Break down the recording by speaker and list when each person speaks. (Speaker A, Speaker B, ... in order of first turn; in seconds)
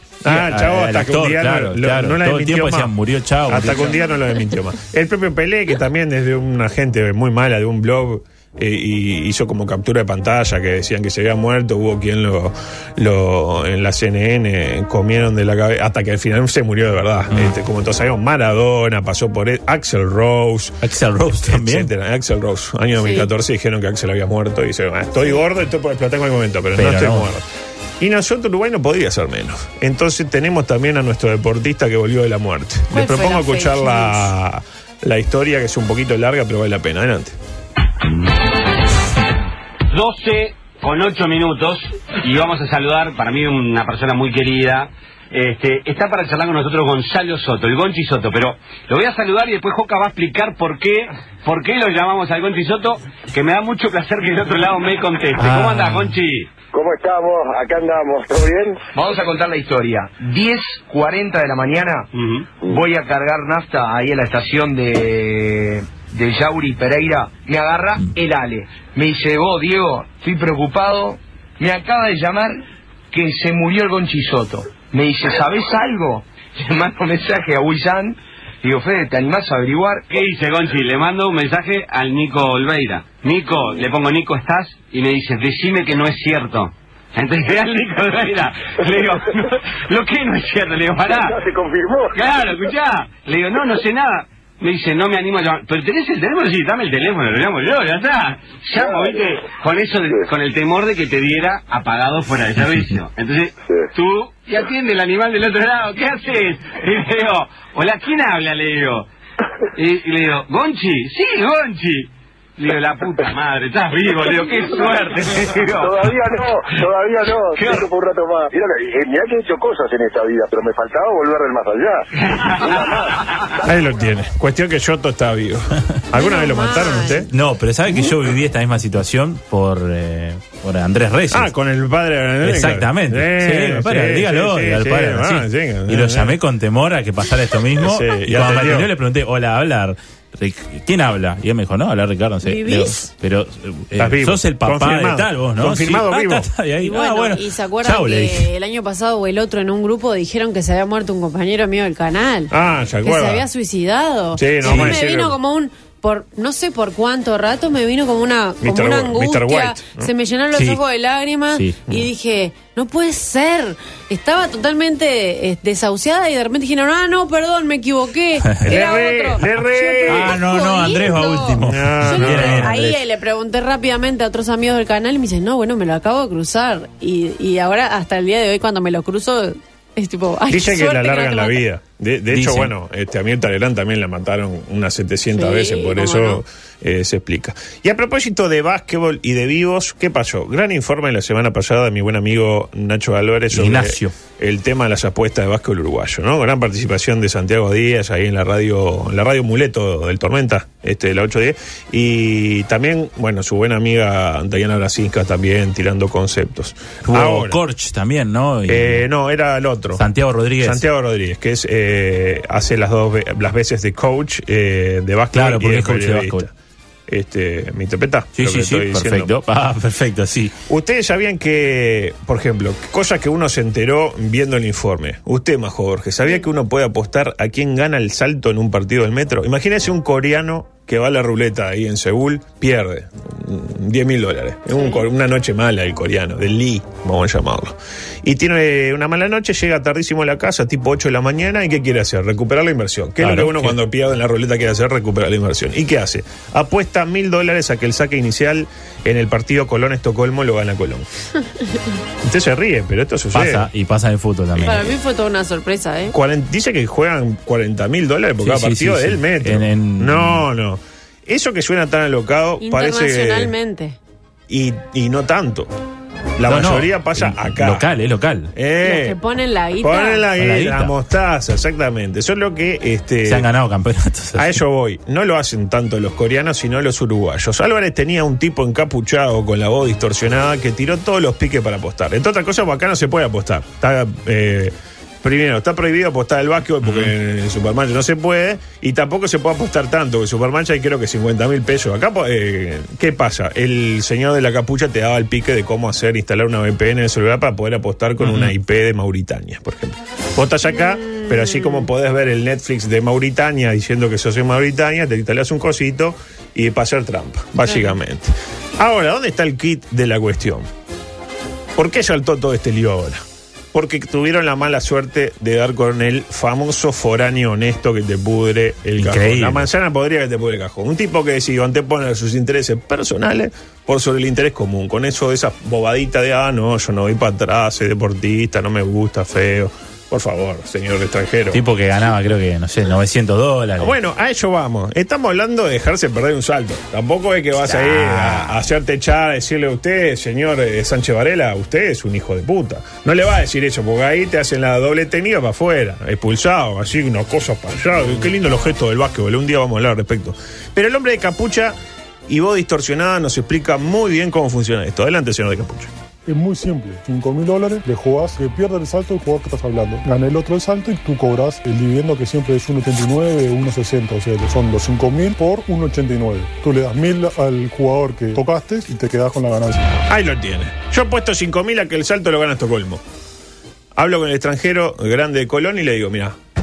Speaker A: 0.2-2.9, 3.5-20.8, 21.4-27.4, 28.0-37.4, 123.6-127.3, 131.3-136.3, 137.8-138.9, 144.0-146.5, 152.5-153.5, 154.4-155.4, 158.6-160.1, 168.6-170.4, 171.6-172.7, 180.5-207.6, 208.7-210.0, 210.6-216.5, 217.1-219.3, 220.7-251.1, 252.2-253.7, 256.1-263.5, 264.5-265.7, 266.4-267.9, 268.6-269.2, 269.8-273.5, 274.4-310.7, 311.8-313.2, 313.7-331.6, 333.8-351.8, 352.3-355.9, 370.1-373.0, 373.9-376.4
Speaker B: 0.3-4.0, 20.8-21.9, 26.8-27.3, 55.4-56.2, 127.3-131.5, 132.4-148.5, 154.6-155.0, 160.6-160.8, 161.5-161.8, 170.1-173.0, 182.3-182.7, 193.5-194.1, 207.1-209.1, 210.0-210.8, 215.3-216.5, 218.4-220.6, 243.2-243.8, 253.3-254.9, 258.4-260.4, 266.4-268.5, 270.4-270.9, 273.3-274.6, 286.8-287.1, 298.2-298.5, 319.0-319.7, 331.5-333.9, 337.6-338.6
Speaker C: 23.0-23.3, 32.9-34.3, 126.1-127.3, 142.4-143.1, 146.8-152.5, 153.0-181.6, 185.3-186.4, 234.8-235.1, 254.6-256.1, 262.6-264.0, 268.8-270.3, 300.7-301.9, 307.6-307.9
Speaker D: 39.9-56.5, 62.1-62.5, 80.1-91.4, 92.1-109.1, 109.7-116.2, 117.5-117.9, 122.3-123.0
Speaker E: 56.7-58.8, 91.1-92.1, 115.8-123.1
Speaker F: 58.9-62.1, 62.6-80.1
Speaker G: 356.3-370.0